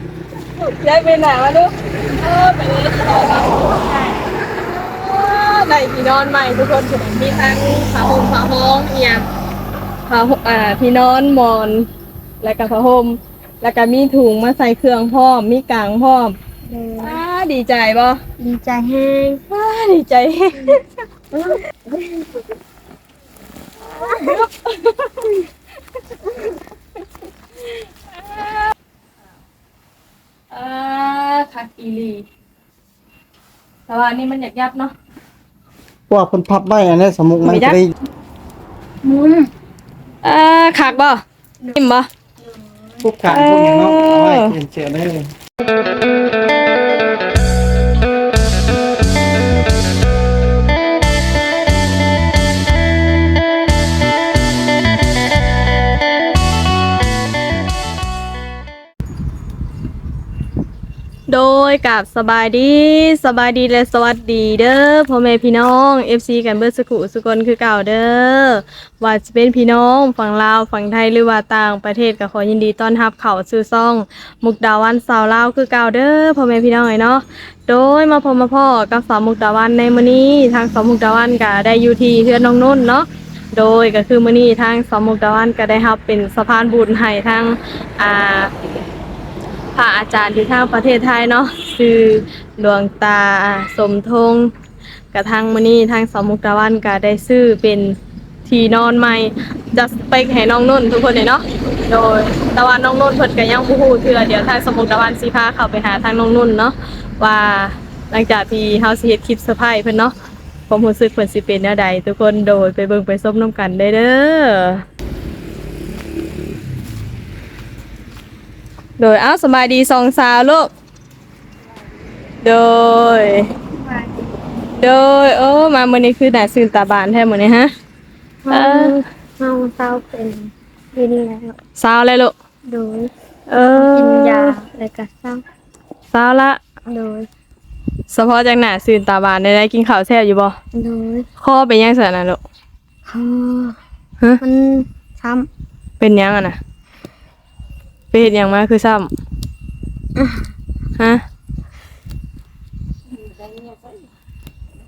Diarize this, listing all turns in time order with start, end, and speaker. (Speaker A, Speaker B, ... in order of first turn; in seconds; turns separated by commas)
Speaker A: 0.6-9.3, Speaker A: 10.1-11.9, Speaker A: 12.4-16.4, Speaker B: 16.6-17.2, Speaker A: 17.0-18.2, Speaker B: 18.4-19.4, Speaker A: 19.5-20.8, Speaker B: 21.3-22.2, Speaker A: 23.9-25.3, Speaker B: 24.1-24.4, Speaker A: 27.6-28.7, Speaker A: 30.5-32.2, Speaker A: 33.9-34.9, Speaker C: 36.1-37.9, Speaker A: 37.4-37.8, Speaker B: 39.0-39.5, Speaker A: 40.2-41.2, Speaker A: 41.8-42.1, Speaker B: 42.4-43.0, Speaker C: 43.0-45.3, Speaker A: 43.3-44.5, Speaker A: 61.3-88.5, Speaker A: 89.7-94.5, Speaker A: 95.1-110.1, Speaker A: 110.7-114.8, Speaker A: 119.0-120.7, Speaker A: 122.4-123.5, Speaker B: 123.8-124.3, Speaker A: 124.8-127.7, Speaker B: 128.4-131.6, Speaker A: 128.5-129.0, Speaker A: 131.8-132.3, Speaker B: 132.7-135.4, Speaker A: 133.5-134.5, Speaker A: 136.1-136.6, Speaker B: 136.9-137.3, Speaker A: 138.1-140.6, Speaker B: 140.7-141.3, Speaker A: 141.4-142.4, Speaker B: 143.1-143.8, Speaker B: 144.4-145.5, Speaker A: 146.0-146.6, Speaker A: 148.1-149.1, Speaker B: 150.2-150.4, Speaker A: 151.0-151.2, Speaker A: 153.4-153.7